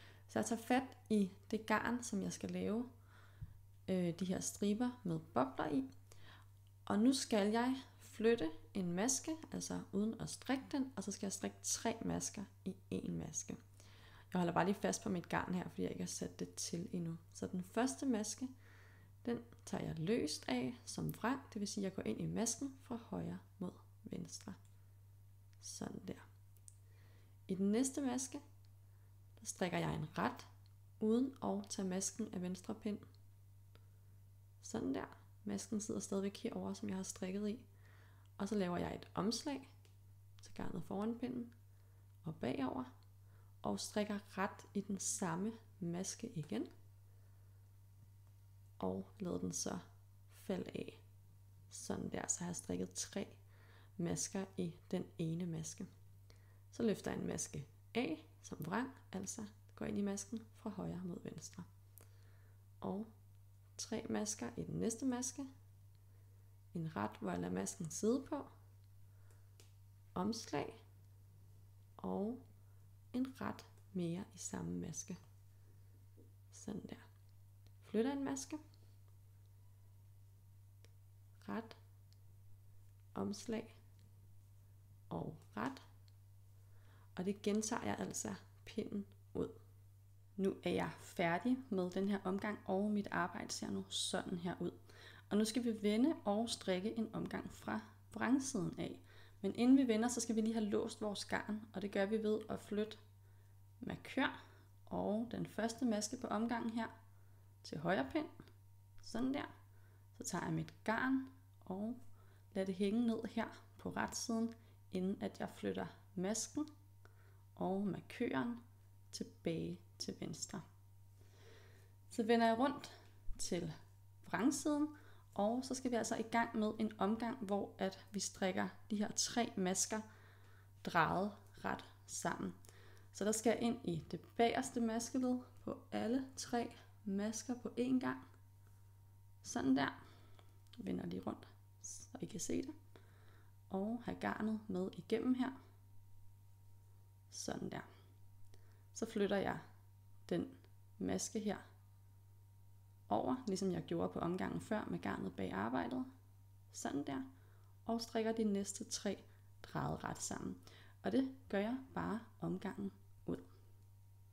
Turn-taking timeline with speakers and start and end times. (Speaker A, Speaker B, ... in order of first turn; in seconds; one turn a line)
Speaker A: 0.3-2.9
Speaker A: 3.9-5.9
Speaker A: 6.9-13.6
Speaker A: 14.3-18.5
Speaker A: 19.2-24.6
Speaker A: 25.6-26.2
Speaker A: 27.5-28.4
Speaker A: 29.4-30.5
Speaker A: 31.0-33.0
Speaker A: 34.6-37.6
Speaker A: 38.4-39.7
Speaker A: 40.4-41.5
Speaker A: 42.2-42.9
Speaker A: 43.6-46.7
Speaker A: 48.8-51.0
Speaker A: 51.7-53.4
Speaker A: 54.0-55.9
Speaker A: 56.7-61.7
Speaker A: 62.8-63.1
Speaker A: 63.8-65.5
Speaker A: 66.7-68.5
Speaker A: 70.1-70.8
Speaker A: 72.0-72.4
Speaker A: 73.1-75.2
Speaker A: 76.5-77.0
Speaker A: 77.8-78.6
Speaker A: 81.4-81.8
Speaker A: 83.1-83.8
Speaker A: 85.1-85.8
Speaker A: 87.2-89.6
Speaker A: 90.3-94.8
Speaker A: 95.3-103.0
Speaker A: 103.8-104.3
Speaker A: 104.9-106.9
Speaker A: 107.6-108.3
Speaker A: 109.0-109.5
Speaker A: 110.1-112.0
Speaker A: 112.5-116.7
Speaker A: 117.5-118.6
Speaker A: 119.1-120.6
Speaker A: 122.1-130.0
Speaker A: 130.8-132.6
Speaker A: 133.1-138.2
Speaker A: 139.4-140.0
Speaker A: 140.8-142.7
Speaker A: 143.7-145.6
Speaker A: 147.3-147.9
Speaker A: 148.9-149.6
Speaker A: 150.3-151.6
Speaker A: 153.1-156.1
Speaker A: 156.7-157.3
Speaker A: 157.8-163.5